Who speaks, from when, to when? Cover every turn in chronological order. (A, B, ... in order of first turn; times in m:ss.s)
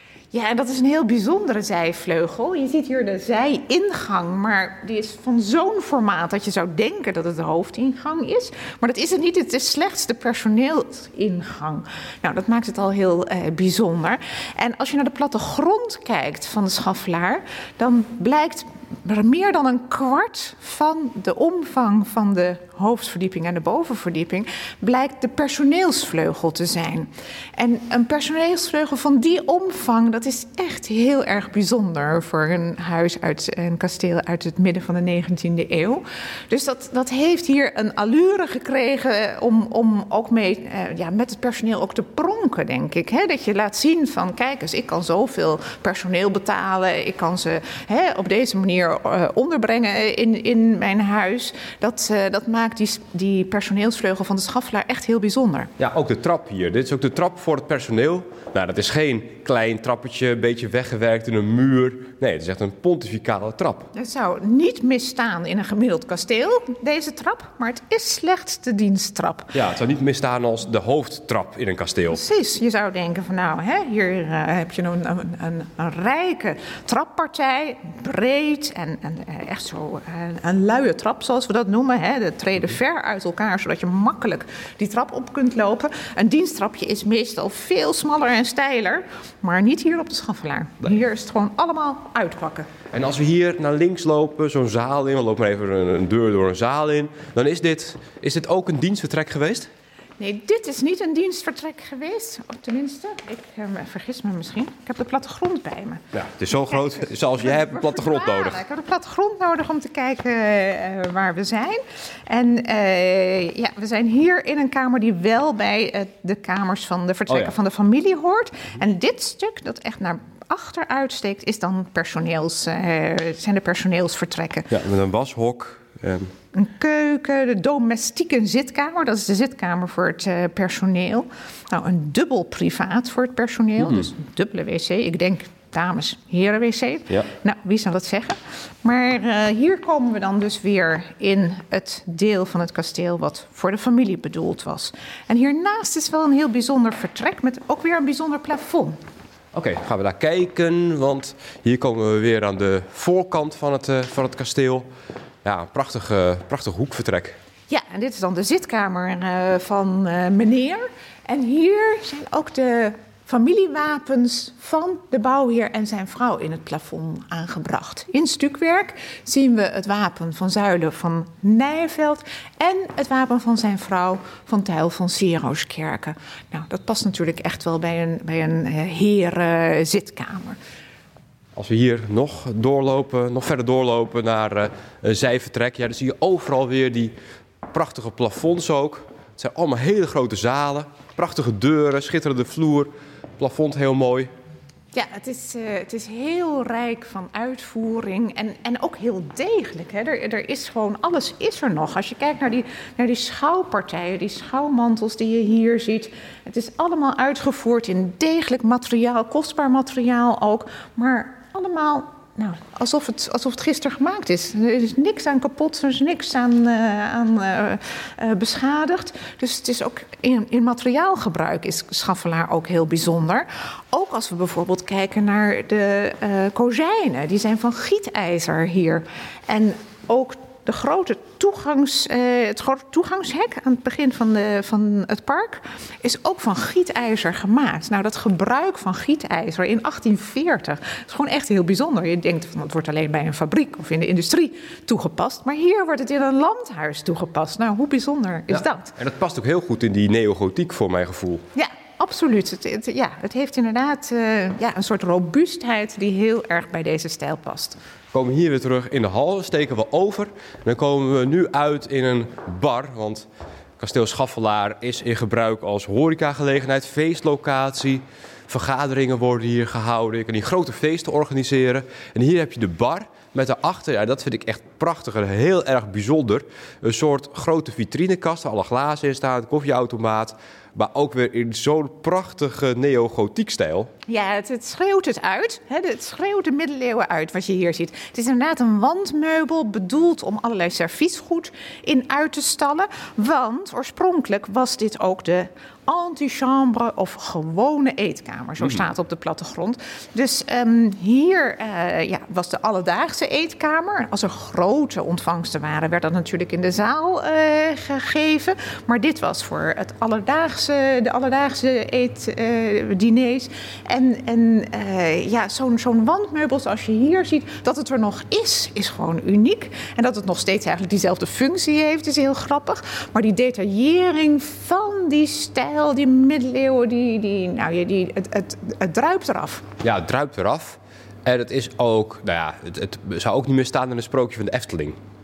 0:00.3-0:55.7 A
0:55.8-1:03.9 B
1:03.9-1:09.5 A
1:09.5-1:12.2 B
1:12.1-1:32.7 A
1:32.9-1:39.7 B
1:40.2-1:46.0 A
1:46.1-1:48.6 B
1:46.9-2:04.7 A
1:57.3-1:57.5 B
2:04.7-2:06.3 B
2:06.5-2:29.0 A
2:13.8-2:14.1 B
2:29.5-2:34.8 B
2:35.4-2:37.4 B
2:37.7-3:00.6 A
3:01.6-3:07.1 B
3:07.7-3:14.3 B
3:14.9-4:09.0 A
4:08.5-4:11.4 B
4:11.5-4:17.8 A
4:18.1-4:23.3 B
4:23.8-4:43.9 B
4:44.1-5:29.6 A
5:29.8-5:35.0 B